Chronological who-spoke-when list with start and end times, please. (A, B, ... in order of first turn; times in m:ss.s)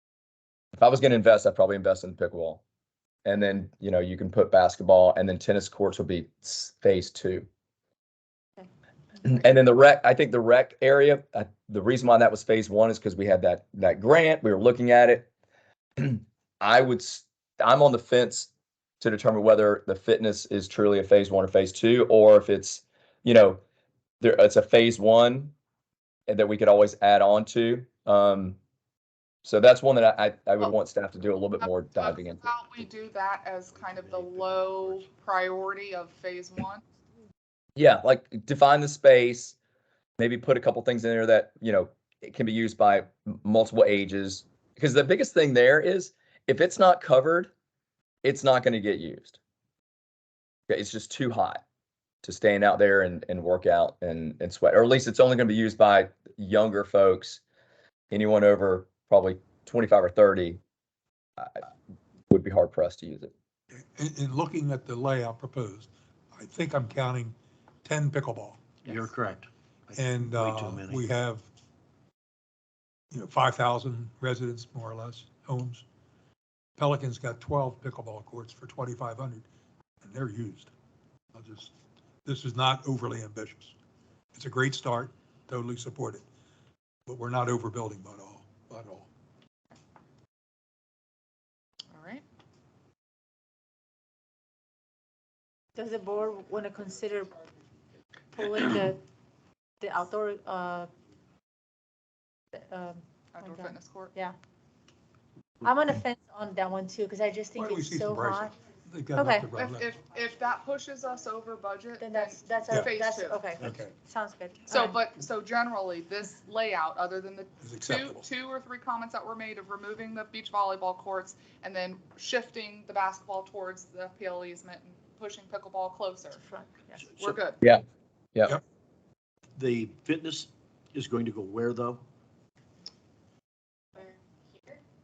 0:00.8-0:02.6 A
0:03.2-0:07.5 A
0:09.2-0:15.3 A
0:16.0-0:23.6 A
0:24.2-0:25.5 A
0:26.3-0:28.6 A
0:29.4-0:32.5 A
0:31.6-0:36.8 B
0:33.7-0:35.1 C
0:37.8-0:39.6 A
0:40.2-0:47.5 A
0:48.2-0:49.4 A
0:50.7-0:51.6 A
0:52.2-0:57.4 A
0:58.1-1:00.6 A
1:01.4-1:01.6 A
1:02.3-1:03.3 A
1:03.8-1:08.8 D
1:08.8-1:11.0 C
1:09.9-1:11.5 D
1:13.1-1:15.8 D
1:16.8-1:19.5 D
1:20.0-1:20.7 D
1:21.3-1:21.7 D
1:22.2-1:23.7 D
1:24.3-1:26.2 D
1:27.0-1:29.1 D
1:31.9-1:32.2 B
1:35.7-1:37.4 E
1:38.3-1:39.0 E
1:39.8-1:40.9 E
1:42.5-1:44.3 E
1:43.3-1:44.1 B
1:45.6-1:48.5 E
1:47.5-1:50.0 D
1:49.1-1:49.5 E
1:49.5-1:53.4 B
1:52.0-1:55.0 E
1:53.6-1:53.9 D
1:54.7-2:06.4 B
1:57.6-1:58.2 D
2:06.4-2:07.0 E
2:07.2-2:07.6 B
2:09.6-2:12.0 C